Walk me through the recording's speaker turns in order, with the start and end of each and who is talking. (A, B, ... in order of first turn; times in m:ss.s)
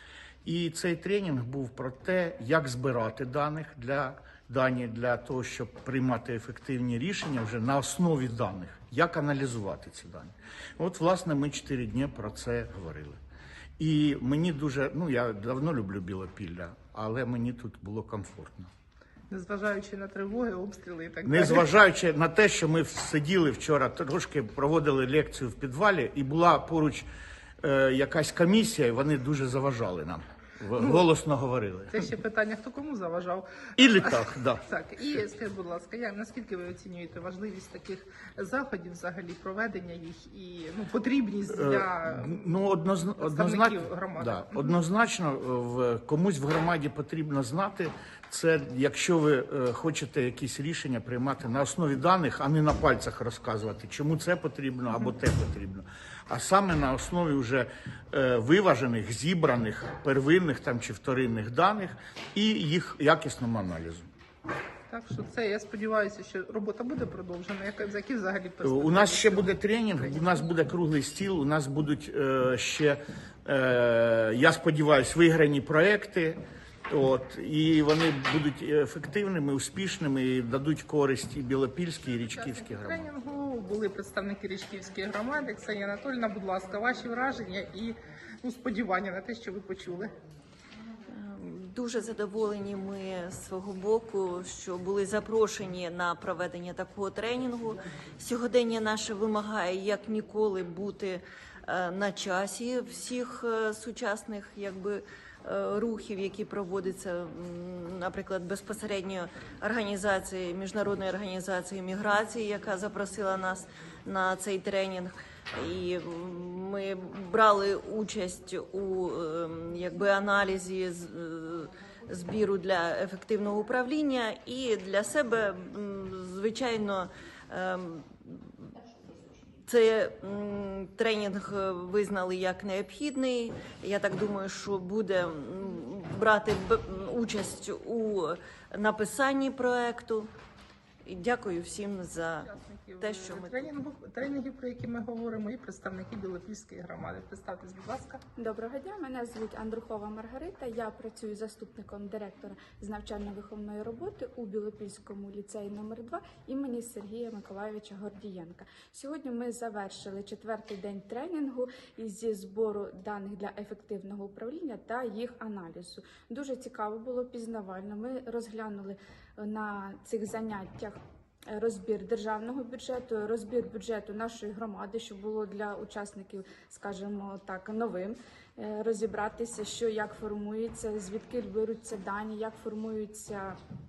0:00.4-0:13.2 A
0:13.8-0:18.7 A
0:19.3-0:21.7 B
0:21.2-0:27.1 A
0:27.6-0:32.0 A
0:30.8-0:31.0 B
0:31.9-0:42.6 B
0:33.8-0:34.6 A
0:41.6-1:04.1 A
0:43.2-0:44.8 B
1:04.9-1:09.6 B
1:08.6-1:23.0 A
1:22.1-1:30.1 B
1:31.1-2:08.8 C
2:09.6-2:20.3 C
2:21.0-2:23.7 C
2:22.4-2:28.2 B
2:28.4-3:03.6 D